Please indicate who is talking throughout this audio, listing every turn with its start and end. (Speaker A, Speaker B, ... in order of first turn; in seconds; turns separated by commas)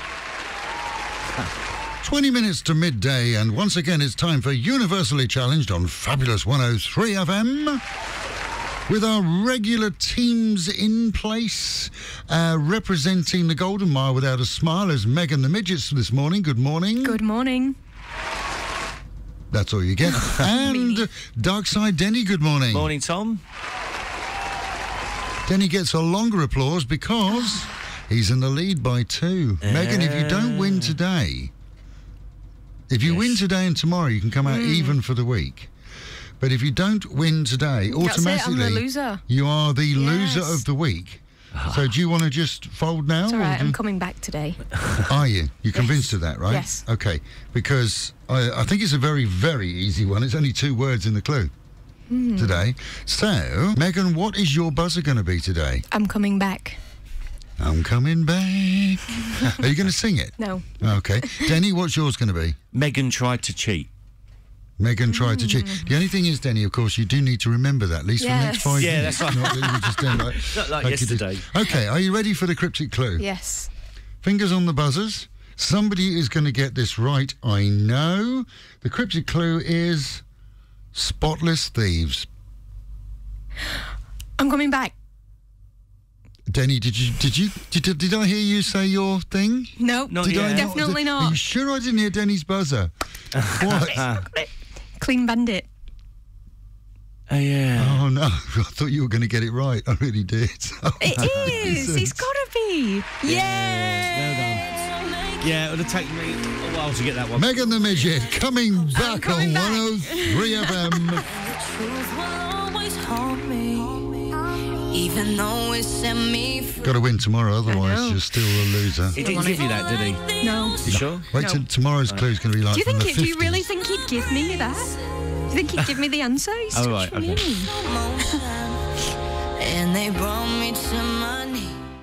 Speaker A: 2.0-7.8, Speaker A: 8.9-17.2, Speaker B: 17.0-17.8, Speaker A: 19.5-22.9, Speaker B: 20.4-21.1, Speaker C: 22.7-23.4, Speaker A: 25.4-31.5, Speaker C: 29.6-30.9, Speaker A: 32.9-35.7, Speaker C: 33.0-33.4, Speaker B: 34.4-35.0, Speaker A: 36.4-43.8, Speaker B: 37.9-39.2, Speaker B: 39.9-40.6, Speaker C: 41.6-41.8, Speaker B: 43.3-44.6, Speaker A: 45.1-51.5, Speaker B: 45.7-46.8, Speaker B: 52.1-52.6, Speaker A: 52.4-55.8, Speaker B: 55.9-56.8, Speaker A: 57.6-62.5, Speaker B: 60.4-61.5, Speaker C: 62.7-63.9, Speaker A: 64.8-73.2, Speaker B: 65.1-65.9, Speaker B: 68.2-69.4, Speaker C: 68.8-71.5, Speaker B: 73.2-73.7, Speaker A: 74.2-80.2, Speaker A: 80.9-82.3, Speaker B: 84.4-84.9, Speaker A: 86.5-92.9, Speaker B: 89.8-91.4, Speaker C: 90.1-90.8, Speaker C: 93.4-93.7, Speaker A: 93.4-94.2, Speaker B: 93.8-95.7, Speaker C: 97.3-98.0, Speaker A: 97.8-102.3, Speaker B: 101.0-104.2, Speaker C: 101.2-101.5, Speaker C: 103.2-104.7, Speaker D: 104.3-105.9, Speaker C: 105.3-108.2, Speaker A: 107.3-111.3, Speaker B: 108.9-110.7, Speaker D: 111.2-114.3, Speaker D: 114.9-116.8, Speaker A: 116.8-119.2, Speaker B: 117.7-119.7, Speaker C: 119.1-121.3, Speaker D: 119.2-120.7, Speaker B: 120.4-121.6, Speaker A: 120.8-123.7, Speaker B: 122.7-125.0, Speaker B: 125.5-127.7, Speaker C: 126.7-127.5, Speaker D: 127.6-128.8, Speaker D: 129.6-131.8